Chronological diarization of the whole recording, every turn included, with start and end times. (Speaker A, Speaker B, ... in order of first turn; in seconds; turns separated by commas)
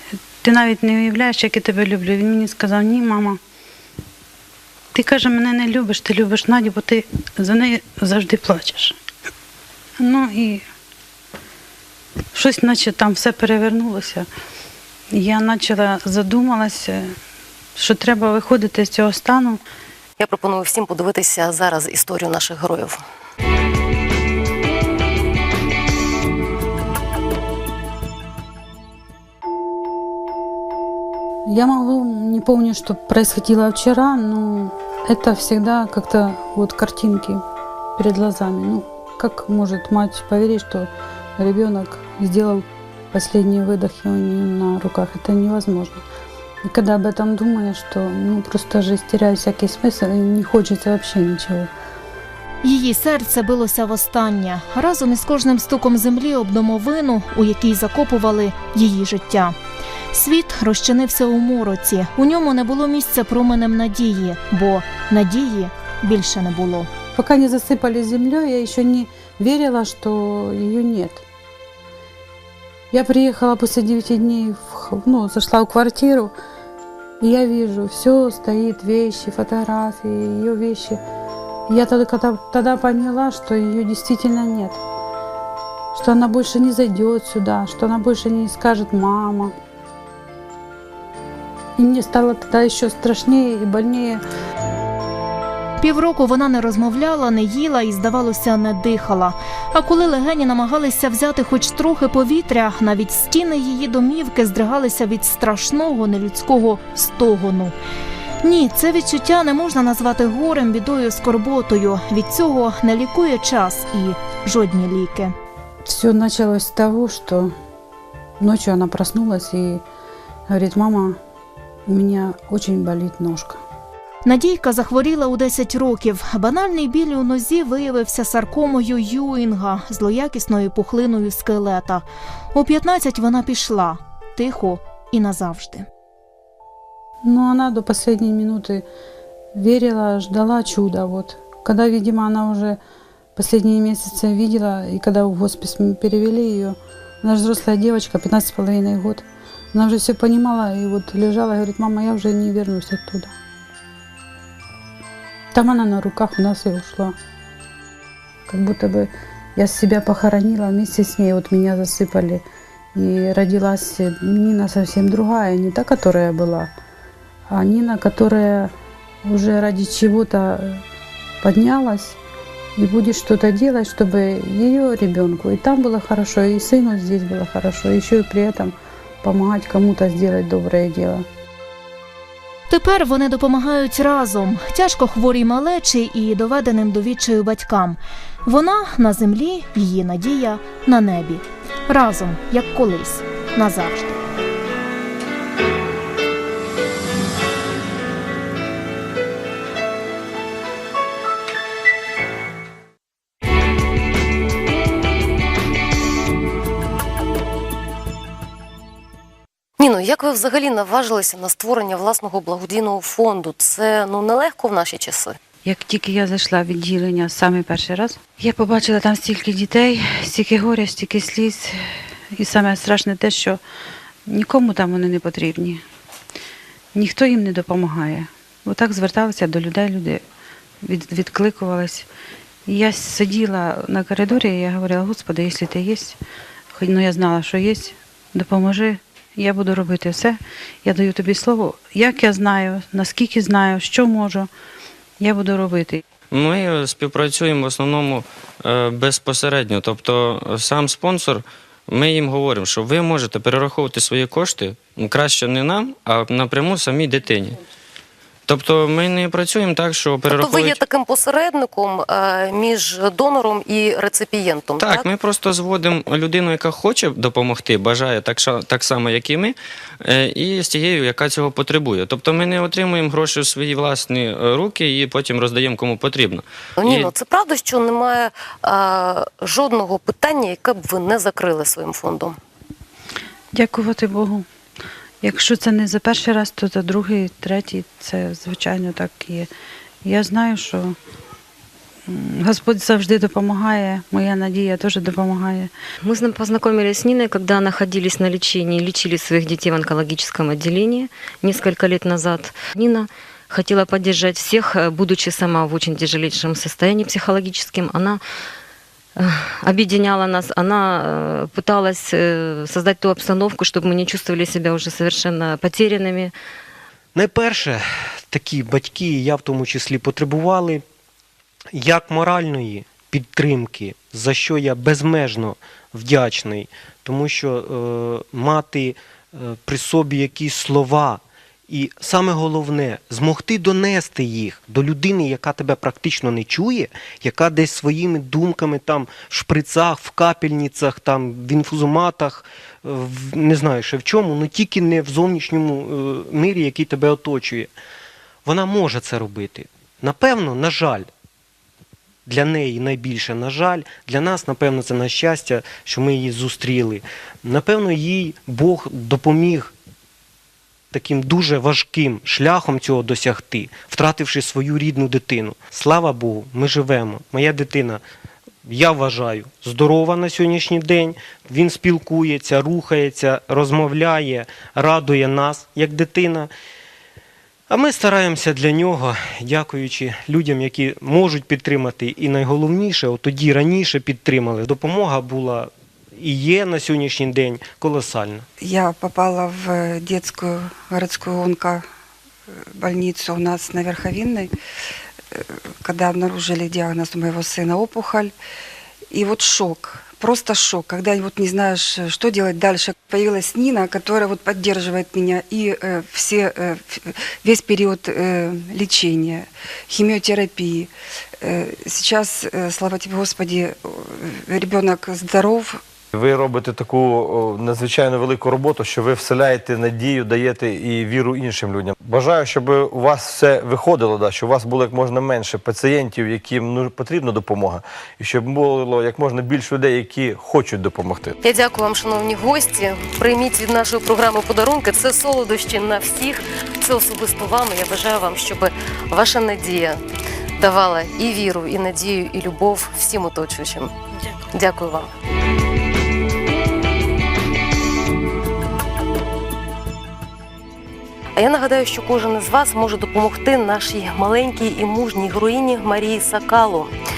Speaker A: 0.4-3.4, Speaker A: 4.9-9.0, Speaker A: 10.0-10.7, Speaker A: 12.3-14.3, Speaker A: 15.1-17.1, Speaker A: 17.8-19.6, Speaker B: 20.2-23.0, Speaker A: 31.5-37.4, Speaker A: 38.0-46.0, Speaker A: 46.6-51.7, Speaker C: 52.6-59.6, Speaker C: 60.1-66.9, Speaker A: 67.2-71.2, Speaker A: 72.9-76.3, Speaker A: 77.2-81.0, Speaker A: 81.7-84.8, Speaker A: 85.9-89.5, Speaker A: 91.8-94.2, Speaker C: 95.8-107.8, Speaker C: 108.4-115.3, Speaker A: 115.9-117.5, Speaker A: 118.4-119.8, Speaker A: 120.5-121.2, Speaker A: 121.9-123.6, Speaker C: 124.2-135.9, Speaker A: 137.2-138.9, Speaker A: 139.5-142.8, Speaker A: 143.4-153.3, Speaker A: 155.5-157.2, Speaker A: 158.5-166.7, Speaker A: 167.5-168.7, Speaker A: 169.2-170.8, Speaker A: 171.4-172.2, Speaker A: 172.8-181.3, Speaker C: 182.7-194.2, Speaker B: 209.8-215.4, Speaker A: 215.6-221.8, Speaker A: 222.4-223.6, Speaker A: 224.3-225.8, Speaker A: 226.9-230.2, Speaker A: 230.8-232.1, Speaker A: 232.7-236.2, Speaker A: 236.8-244.5, Speaker A: 245.2-246.0, Speaker D: 246.3-257.6, Speaker D: 258.5-260.8, Speaker B: 260.3-265.1, Speaker D: 264.8-277.1, Speaker B: 276.8-282.4, Speaker A: 283.5-284.5, Speaker A: 285.2-289.5, Speaker A: 290.0-291.0, Speaker A: 292.1-295.7, Speaker E: 296.0-308.2, Speaker E: 309.2-316.3, Speaker F: 317.1-320.8, Speaker F: 321.7-347.7, Speaker F: 348.4-351.1, Speaker F: 352.3-359.7, Speaker F: 360.9-368.0, Speaker F: 368.6-376.5, Speaker F: 377.7-388.5, Speaker G: 388.6-391.9, Speaker G: 392.6-394.5, Speaker G: 395.3-398.4, Speaker G: 399.1-415.8, Speaker H: 416.1-431.4, Speaker B: 431.4-440.0, Speaker B: 440.6-443.9, Speaker B: 444.5-445.1, Speaker B: 451.4-456.9